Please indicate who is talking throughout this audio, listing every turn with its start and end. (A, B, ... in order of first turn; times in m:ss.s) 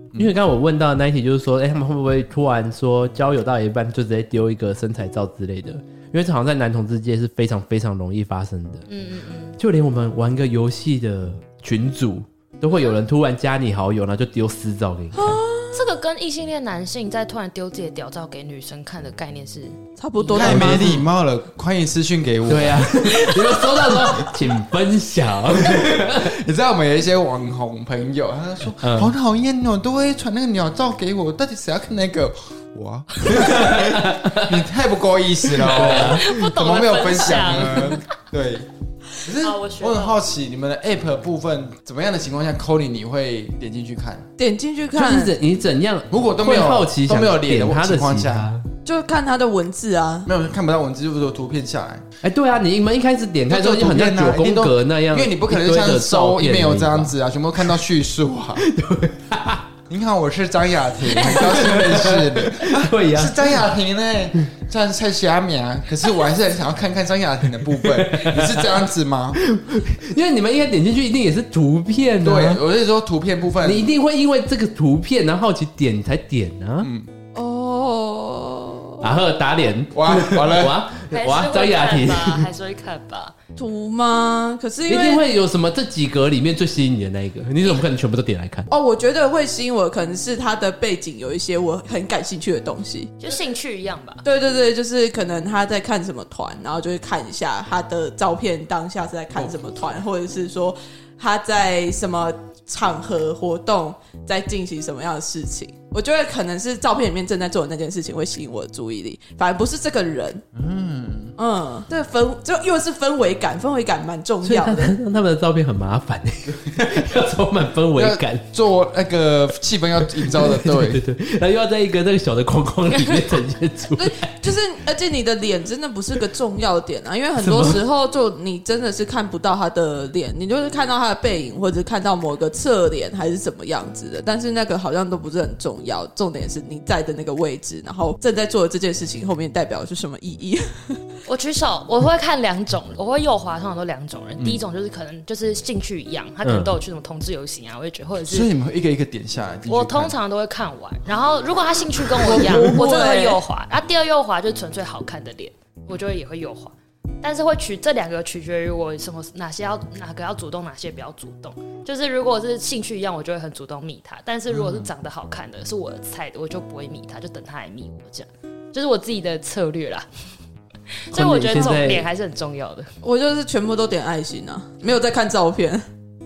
0:00.2-0:08.8 A
0:08.9-0:09.6 B
0:09.6-0:15.4 A
0:15.1-0:15.8 C
0:15.7-0:20.5 B
0:20.0-0:21.0 C
0:20.4-0:23.0 D
0:20.4-0:21.0 A
0:22.5-0:26.3 A
0:23.0-0:24.3 C
0:25.6-0:44.3 D
0:28.8-0:29.1 A
0:33.2-0:34.6 A
0:35.6-0:36.4 A
0:35.8-0:38.0 B
0:39.4-0:40.2 B
0:44.4-0:45.4 C
0:44.9-0:48.6 A
0:46.1-0:48.5 D
0:48.8-0:50.3 C
0:50.2-0:52.0 D
0:52.2-0:57.1 A
0:53.5-0:58.6 D
0:58.6-0:59.6 A
0:59.9-1:09.4 D
1:01.2-1:01.4 B
1:01.2-1:03.5 A
1:07.8-1:08.8 A
1:09.4-1:12.6 A
1:12.2-1:13.9 D
1:13.6-1:16.9 A
1:16.8-1:17.1 D
1:17.3-1:19.2 C
1:19.0-1:22.5 A
1:19.9-1:20.8 D
1:21.1-1:23.3 B
1:23.6-1:25.2 C
1:24.9-1:28.7 A
1:28.7-1:33.1 C
1:33.2-1:34.2 B
1:34.2-1:50.4 C
1:50.5-1:51.3 D
1:51.4-1:55.0 C
1:54.4-1:58.4 A
1:58.0-2:01.0 D
2:00.1-2:04.3 A
2:03.9-2:21.2 C
2:07.4-2:07.8 A
2:21.2-2:28.5 B
2:26.4-2:26.7 A
2:28.3-2:30.1 D
2:29.7-2:50.0 B
2:32.2-2:33.4 C
2:44.5-2:44.9 D
2:51.1-2:52.9 B
2:51.1-2:52.1 A
2:53.0-2:55.8 C